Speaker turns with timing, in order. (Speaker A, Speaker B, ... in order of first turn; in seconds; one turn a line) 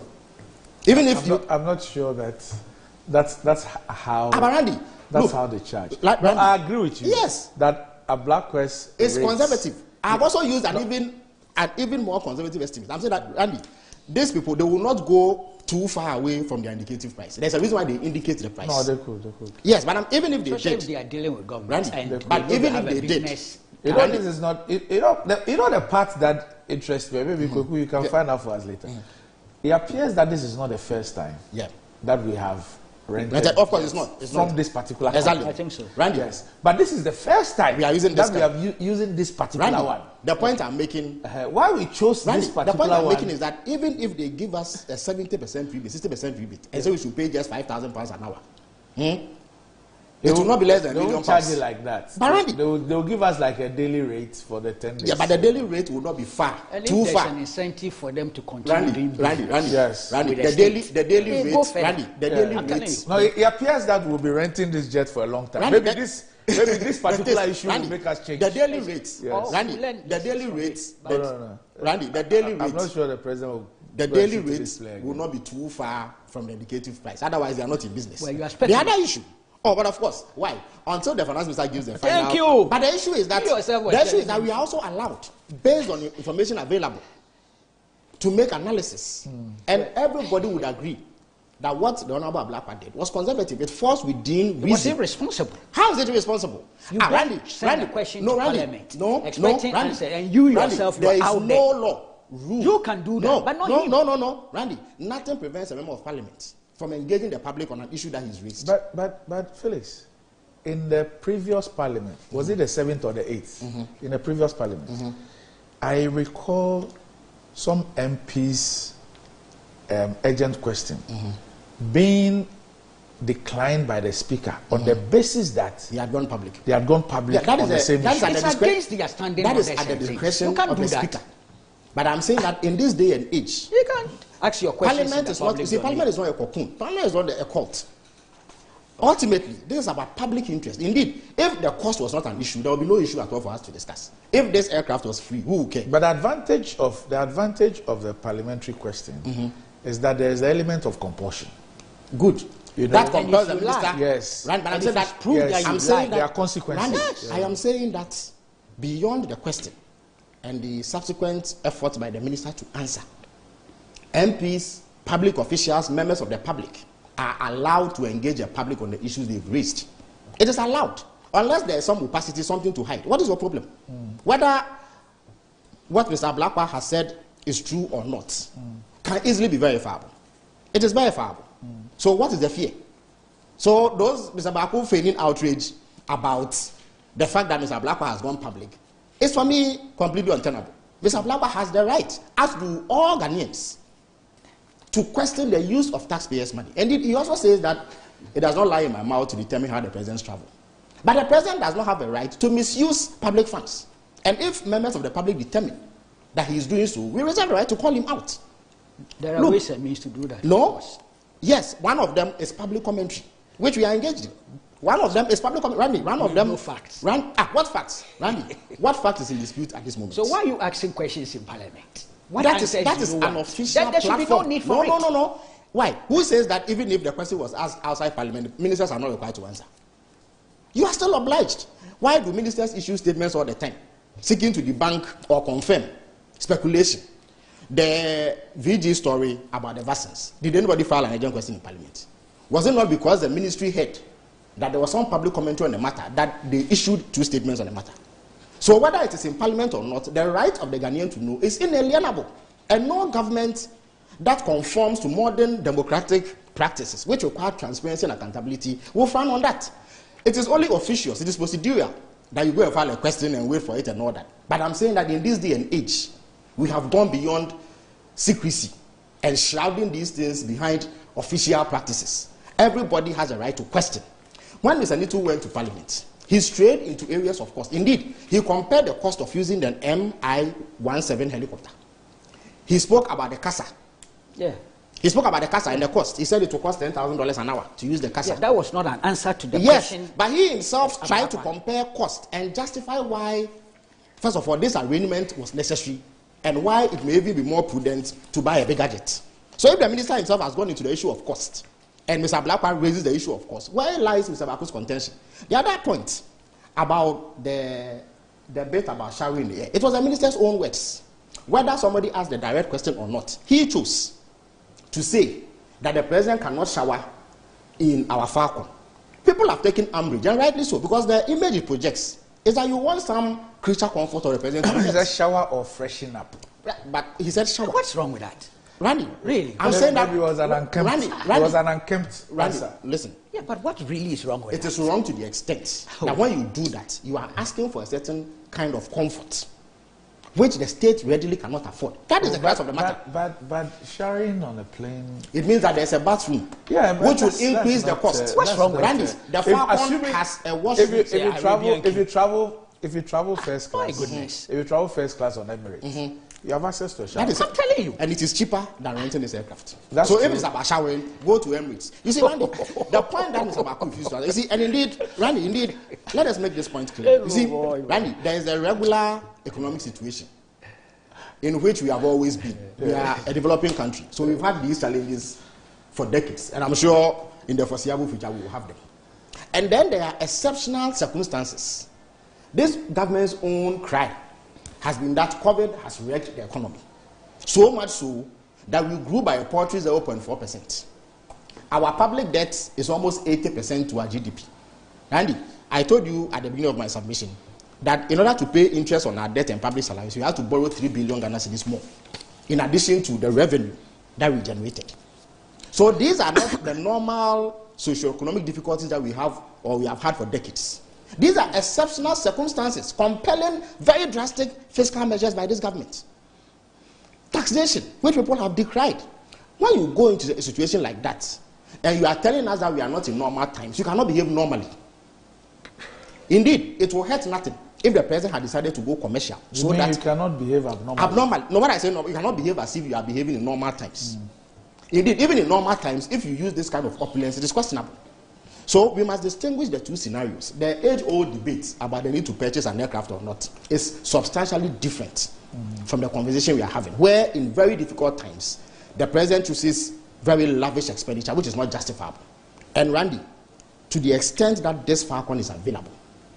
Speaker A: 0.8-1.4
Speaker B: 0.9-4.5
Speaker A: 4.3-5.4
Speaker B: 5.1-9.6
Speaker A: 5.9-7.5
Speaker A: 9.0-18.9
Speaker B: 18.6-19.6
Speaker A: 19.6-20.9
Speaker C: 20.4-23.8
Speaker A: 21.7-23.4
Speaker B: 22.1-22.4
Speaker B: 23.8-28.9
Speaker A: 23.9-24.2
Speaker A: 27.4-28.1
Speaker B: 29.6-31.4
Speaker B: 32.0-35.5
Speaker A: 33.2-34.6
Speaker A: 35.1-36.4
Speaker C: 35.2-36.0
Speaker B: 36.1-40.5
Speaker A: 37.7-38.5
Speaker A: 39.5-41.2
Speaker B: 41.2-43.3
Speaker A: 42.2-48.4
Speaker A: 49.0-49.3
Speaker A: 50.2-51.6
Speaker B: 50.2-55.6
Speaker A: 52.2-52.6
Speaker A: 55.0-57.3
Speaker C: 56.7-63.3
Speaker A: 58.6-63.0
Speaker B: 59.7-60.2
Speaker B: 62.3-69.6
Speaker A: 65.6-71.3
Speaker C: 68.8-71.3
Speaker B: 71.0-75.2
Speaker A: 71.8-72.9
Speaker A: 73.9-87.0
Speaker C: 78.2-79.0
Speaker C: 81.9-82.8
Speaker C: 83.3-84.7
Speaker A: 88.2-91.0
Speaker A: 91.6-95.0
Speaker C: 94.6-95.6
Speaker A: 95.7-108.7
Speaker C: 96.9-101.7
Speaker C: 102.6-104.0
Speaker B: 108.6-110.0
Speaker B: 110.6-115.0
Speaker A: 113.6-113.9
Speaker A: 114.9-115.1
Speaker B: 115.8-116.9
Speaker B: 117.5-118.9
Speaker B: 119.9-121.0
Speaker A: 121.1-121.3
Speaker B: 121.8-122.5
Speaker B: 123.2-125.9
Speaker A: 124.7-125.0
Speaker A: 125.9-126.7
Speaker B: 126.7-128.4
Speaker A: 127.3-128.8
Speaker C: 128.1-131.2
Speaker A: 129.4-131.2
Speaker A: 131.9-133.7
Speaker C: 133.7-136.1
Speaker A: 134.8-137.9
Speaker A: 139.0-145.9
Speaker B: 145.9-151.5
Speaker A: 149.2-149.5
Speaker A: 152.1-159.7
Speaker B: 152.8-153.3
Speaker C: 152.9-154.0
Speaker B: 153.8-154.5
Speaker C: 154.7-156.2
Speaker B: 155.2-157.5
Speaker C: 156.9-157.2
Speaker A: 160.4-163.1
Speaker A: 164.1-173.7
Speaker A: 174.2-174.7
Speaker A: 175.9-178.5
Speaker A: 179.0-180.1
Speaker A: 180.7-182.8
Speaker A: 183.6-193.8
Speaker A: 194.9-200.5
Speaker A: 201.0-205.8
Speaker A: 206.3-208.4
Speaker C: 209.2-211.0
Speaker A: 210.4-210.8
Speaker A: 211.4-220.3
Speaker C: 216.1-217.0
Speaker C: 220.1-225.1
Speaker A: 222.4-229.7
Speaker A: 230.7-237.0
Speaker A: 237.7-244.0
Speaker A: 244.6-247.9
Speaker A: 248.6-253.7
Speaker A: 254.2-259.7
Speaker A: 260.2-267.5
Speaker A: 268.2-274.0
Speaker A: 274.6-281.7
Speaker A: 282.7-283.7
Speaker A: 285.0-288.4
Speaker C: 288.2-290.1
Speaker A: 289.5-293.5
Speaker C: 290.8-291.5
Speaker A: 294.2-306.2
Speaker A: 306.8-314.1
Speaker A: 314.9-317.1
Speaker A: 317.8-318.7
Speaker A: 319.2-325.1
Speaker B: 324.6-326.4
Speaker A: 326.6-327.8
Speaker C: 327.6-328.5
Speaker A: 328.8-331.6
Speaker C: 329.2-330.1
Speaker B: 329.6-332.7
Speaker A: 332.3-333.2
Speaker C: 333.3-334.9
Speaker A: 334.5-339.5
Speaker C: 335.9-336.2
Speaker A: 340.3-343.0
Speaker B: 342.2-345.3
Speaker A: 345.3-351.1
Speaker B: 346.7-350.2
Speaker C: 348.3-349.1
Speaker B: 350.7-357.4
Speaker C: 350.9-352.1
Speaker C: 353.4-354.5
Speaker A: 354.0-354.2
Speaker A: 355.8-356.2
Speaker A: 357.1-370.3
Speaker C: 357.2-358.0
Speaker B: 359.9-360.5
Speaker C: 362.2-363.7
Speaker C: 367.0-368.1
Speaker A: 371.4-375.4
Speaker B: 372.8-373.0
Speaker A: 375.9-378.8
Speaker A: 379.5-381.9
Speaker A: 382.5-384.2
Speaker A: 384.8-386.8
Speaker A: 387.4-390.9
Speaker A: 391.7-394.5
Speaker A: 395.1-401.8
Speaker A: 402.5-404.9
Speaker A: 405.7-416.0
Speaker A: 417.3-419.0
Speaker A: 419.6-424.7
Speaker A: 426.3-430.0
Speaker B: 429.5-431.2
Speaker A: 430.9-434.1
Speaker A: 434.9-438.0
Speaker A: 438.7-445.3
Speaker A: 445.8-452.2
Speaker A: 452.7-453.2
Speaker A: 453.9-455.9